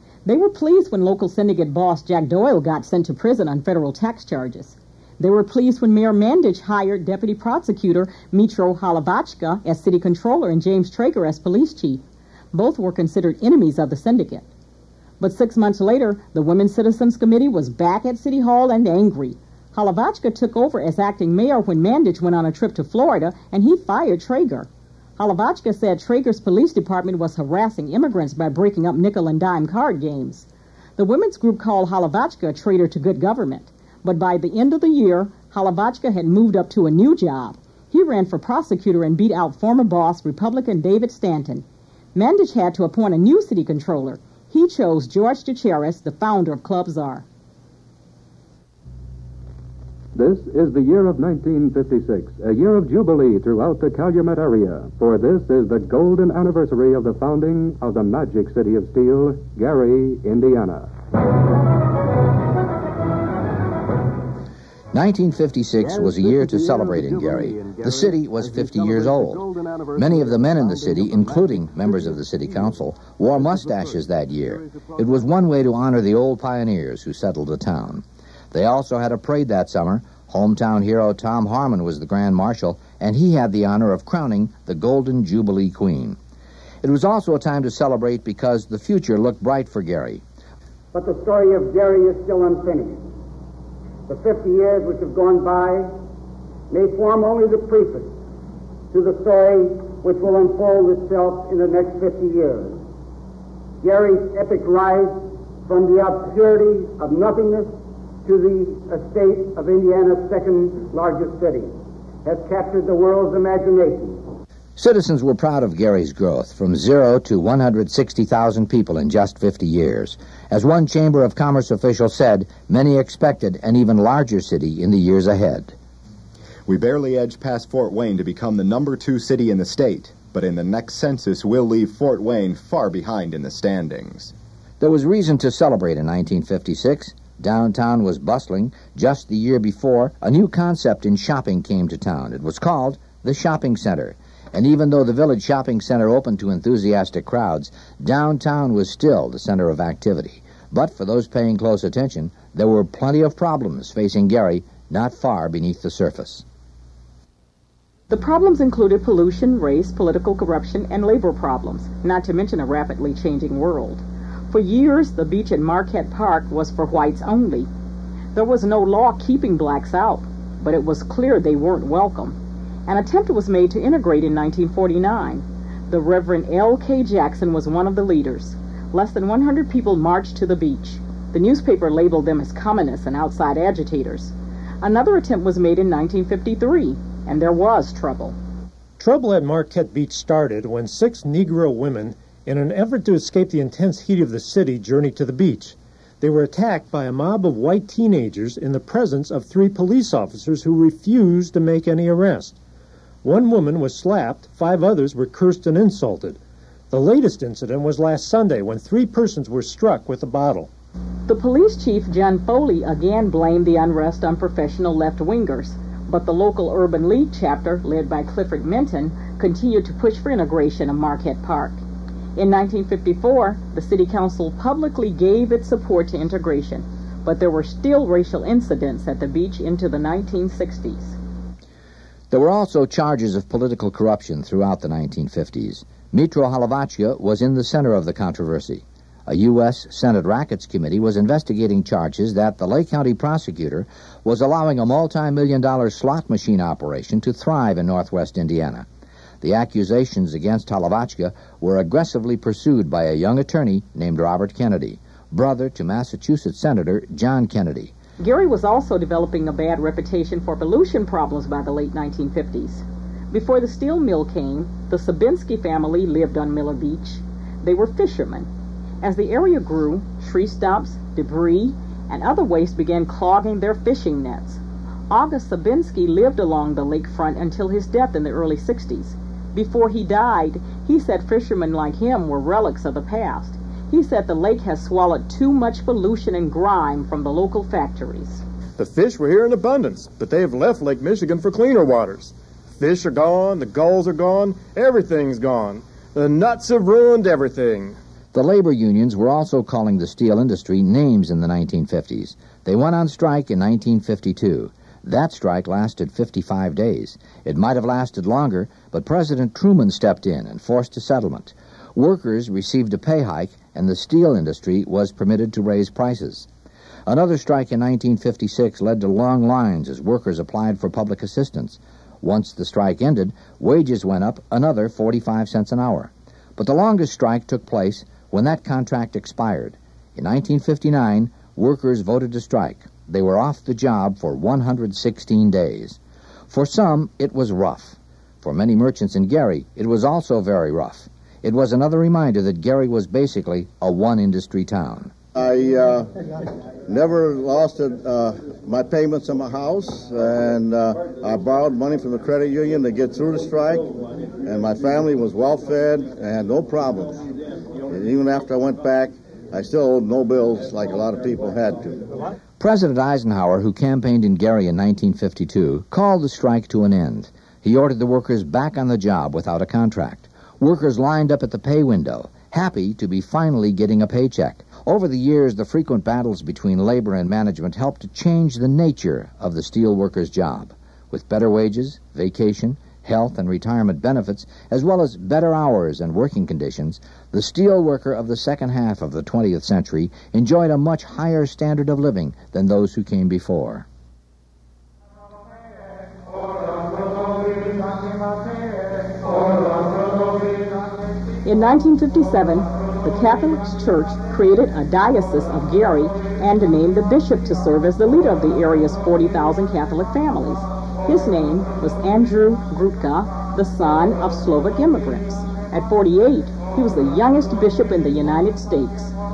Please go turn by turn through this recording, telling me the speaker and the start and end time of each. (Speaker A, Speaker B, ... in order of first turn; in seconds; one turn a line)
Speaker A: 0.2-14.4
Speaker A: 15.2-30.4
Speaker A: 31.0-47.2
Speaker B: 50.1-60.9
Speaker C: 64.9-86.2
Speaker C: 86.8-90.2
Speaker D: 90.9-93.0
Speaker D: 94.1-95.9
Speaker D: 96.7-98.1
Speaker D: 98.9-102.8
Speaker D: 103.8-107.7
Speaker D: 108.2-111.7
Speaker D: 112.2-114.2
Speaker C: 114.8-125.7
Speaker E: 126.7-134.3
Speaker C: 134.8-156.4
Speaker A: 158.1-167.7
Speaker A: 168.3-172.3
Speaker A: 172.9-188.3
Speaker F: 189.0-202.6
Speaker F: 203.2-210.7
Speaker A: 211.3-221.8
Speaker A: 222.3-231.1
Speaker C: 232.3-248.9
Speaker C: 249.4-257.9
Speaker A: 258.2-268.5
Speaker A: 269.0-288.4
Speaker G: 288.8-298.0
Speaker C: 298.3-316.5
Speaker C: 317.1-336.0
Speaker C: 336.5-345.1
Speaker H: 345.3-346.1
Speaker H: 346.9-357.2
Speaker H: 357.9-362.1
Speaker C: 362.6-393.8
Speaker A: 401.4-419.1